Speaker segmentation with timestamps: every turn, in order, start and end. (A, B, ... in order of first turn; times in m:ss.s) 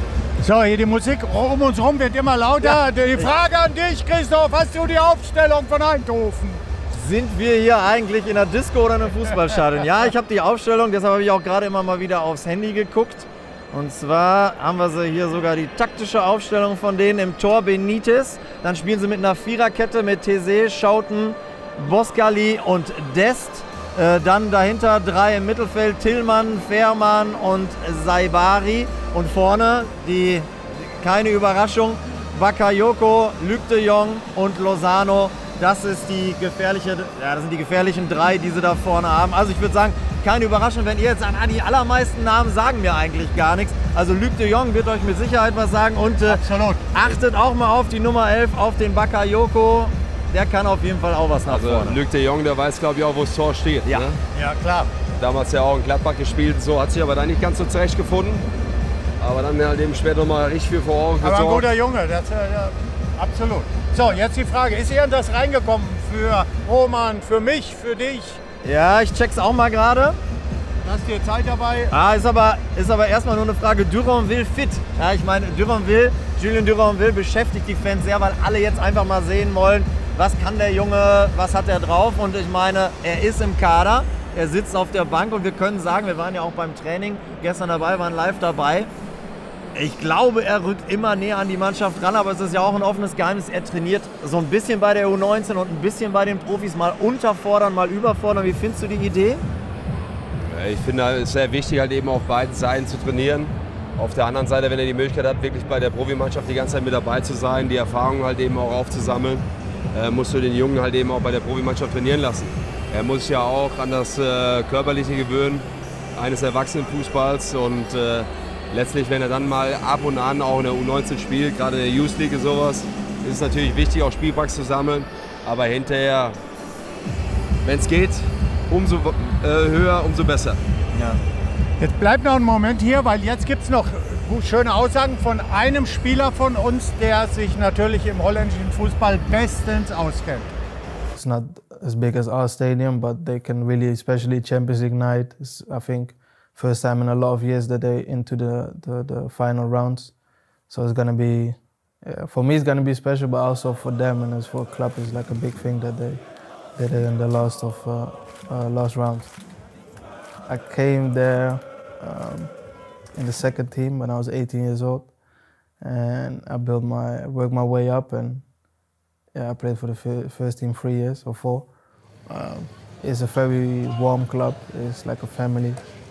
0:00.4-0:06.6 A
0:02.6-0:03.3 B
0:06.9-0:52.0 B
0:46.2-0:46.8 A
0:51.5-0:54.2 C
0:54.3-0:54.9 A
0:55.2-0:58.5 C
0:59.2-1:01.7 C
1:01.2-1:08.4 A
1:08.6-1:10.2 B
1:10.8-1:11.9 A
1:11.9-1:28.9 B
1:29.8-1:39.5 B
1:40.5-2:06.4 C
2:07.6-2:10.6 C
2:10.9-2:11.2 B
2:11.8-2:20.5 A
2:21.1-2:30.2 D
2:30.7-2:36.2 D
2:36.8-2:39.3 D
2:40.5-2:42.5 D
2:43.2-2:45.1 D
2:45.8-2:48.5 D
2:49.3-2:51.7 D
2:52.3-2:55.8 D